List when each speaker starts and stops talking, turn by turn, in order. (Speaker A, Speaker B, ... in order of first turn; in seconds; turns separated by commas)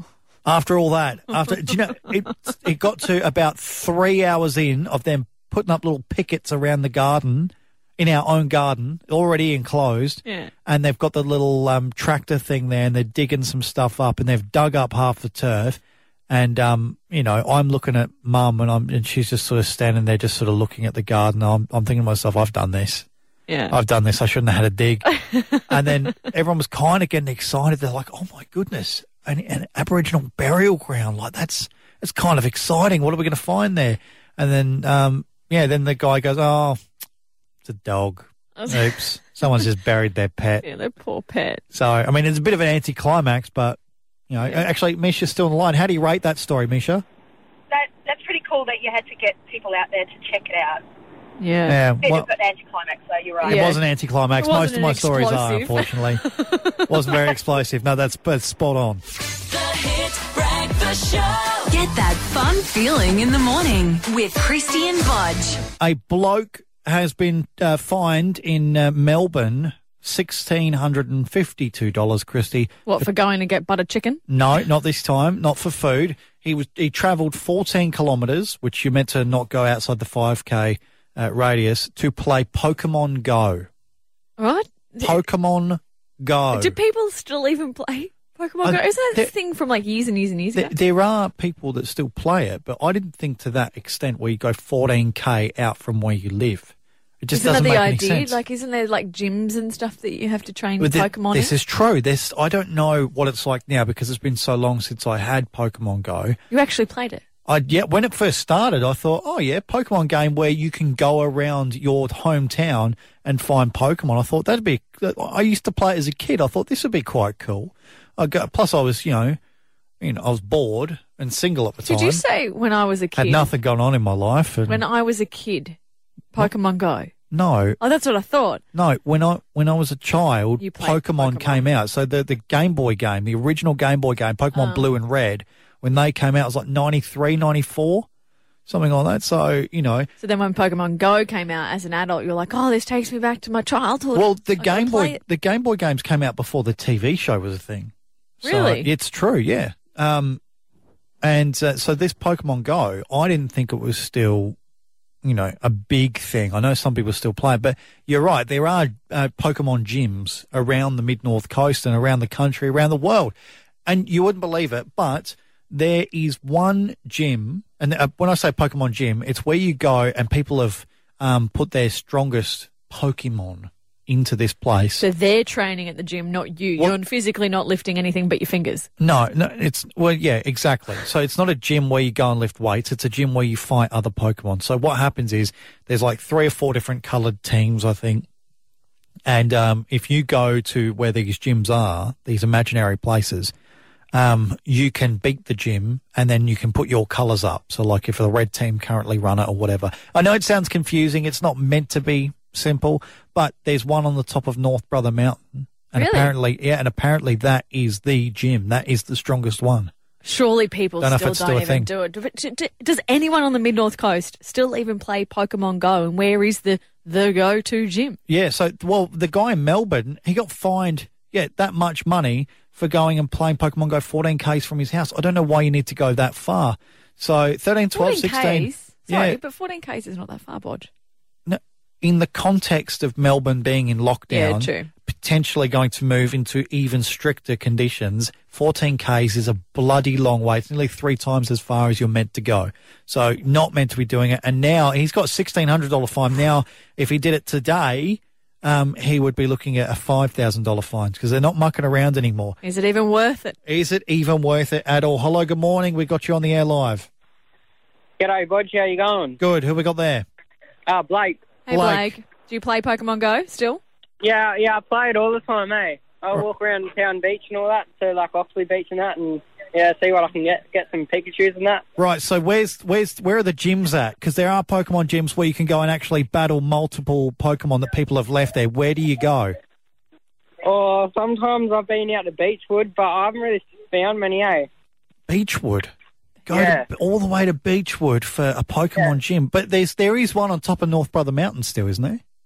Speaker A: 0.4-23.1, Speaker B: 10.2-10.5, Speaker B: 23.5-23.7, Speaker A: 23.7-25.1, Speaker B: 25.1-25.9, Speaker A: 25.7-36.8, Speaker A: 37.6-40.6, Speaker B: 38.6-39.0, Speaker B: 40.6-41.6, Speaker A: 41.7-47.0, Speaker C: 47.7-50.8, Speaker B: 51.4-51.8, Speaker A: 51.7-52.3, Speaker C: 52.0-53.7, Speaker A: 53.4-56.2, Speaker B: 53.4-53.8, Speaker B: 54.4-57.2, Speaker A: 56.9-59.0, Speaker D: 59.4-65.6, Speaker A: 65.8-73.1, Speaker B: 72.8-74.2, Speaker A: 74.3-83.7, Speaker B: 84.4-85.2, Speaker A: 85.0-86.8, Speaker B: 86.5-90.7, Speaker A: 88.6-89.3, Speaker A: 90.5-98.4, Speaker B: 97.3-101.5, Speaker A: 100.8-106.4, Speaker B: 106.5-107.2, Speaker A: 107.5-119.4, Speaker A: 120.0-122.2, Speaker B: 121.8-123.5, Speaker A: 123.2-124.8, Speaker B: 124.7-125.8, Speaker B: 126.3-127.1, Speaker A: 127.3-127.8, Speaker B: 127.8-128.6, Speaker A: 128.7-138.1, Speaker B: 130.6-131.6, Speaker B: 134.5-134.9, Speaker A: 138.7-140.1, Speaker B: 140.2-145.2, Speaker A: 144.1-150.4, Speaker B: 148.4-148.9, Speaker A: 151.2-154.6, Speaker A: 155.2-163.3, Speaker A: 163.8-175.1, Speaker B: 175.0-178.9, Speaker A: 179.0-188.2, Speaker A: 189.2-193.5, Speaker A: 194.1-209.9, Speaker B: 205.9-206.3, Speaker B: 210.2-218.2, Speaker A: 211.0-211.9, Speaker A: 218.3-229.4, Speaker B: 227.9-230.9, Speaker A: 231.4-252.6, Speaker B: 234.3-234.9, Speaker B: 252.6-253.6, Speaker A: 253.7-257.1, Speaker E: 258.2-259.4, Speaker A: 259.4-260.2, Speaker E: 260.9-261.6, Speaker B: 261.6-263.8, Speaker A: 261.7-262.1, Speaker E: 264.2-271.8, Speaker A: 272.0-279.6, Speaker E: 280.6-284.7, Speaker A: 285.3-285.9, Speaker A: 286.5-292.2, Speaker E: 286.5-286.9